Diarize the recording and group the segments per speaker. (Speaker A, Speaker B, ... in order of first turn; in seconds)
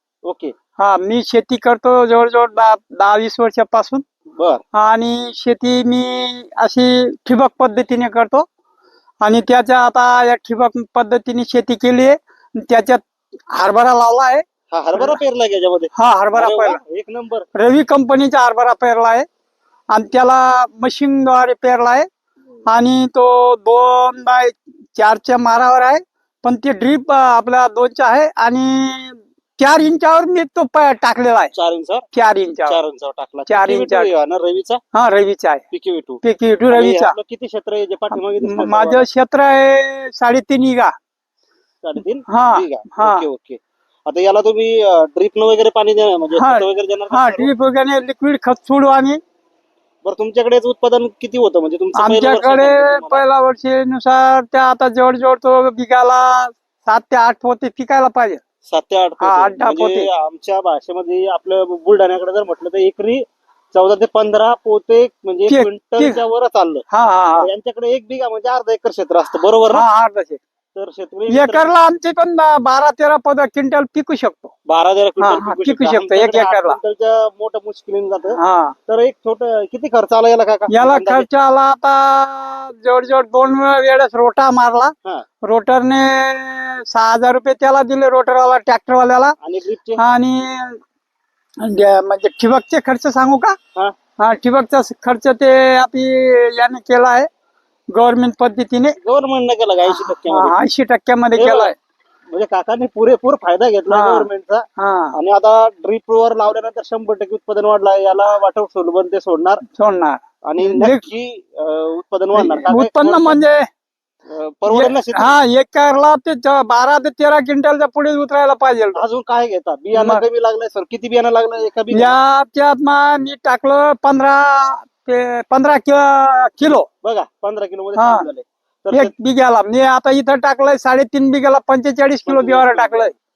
Speaker A: 0.2-0.6, 4.4-4.6, 14.7-17.5, 31.5-32.1, 32.7-34.8, 35.7-39.1, 41.8-47.5, 50.0-53.3, 58.6-66.9, 67.4-69.9, 70.8-71.7, 74.7-81.3, 89.4-90.0, 99.0-100.6, 101.4-101.7, 102.3-109.6, 110.5-113.4, 114.3-115.4, 119.0-122.2, 127.0-129.1, 132.3-133.1
Speaker B: 0.8-4.0, 4.7-8.5, 9.2-14.4, 14.9-15.2, 15.9-16.8, 17.6-19.3, 19.9-22.1, 22.7-31.5, 32.1-32.8, 33.5-34.1, 34.9-35.7, 36.2-37.2, 38.1-40.9, 42.3-43.2, 46.4-49.2, 52.0-58.4, 59.2-60.1, 65.5-66.2, 66.9-67.5, 69.7-70.4, 71.3-74.5, 75.2-76.8, 78.4-78.8, 80.7-89.3, 90.0-90.8, 91.6-93.6, 94.2-97.3, 97.9-99.0, 99.9-101.8, 103.9-105.2, 109.8-111.0, 112.4-113.7, 114.7-119.0, 119.9-120.2, 121.9-126.9, 128.0-128.3, 128.9-133.1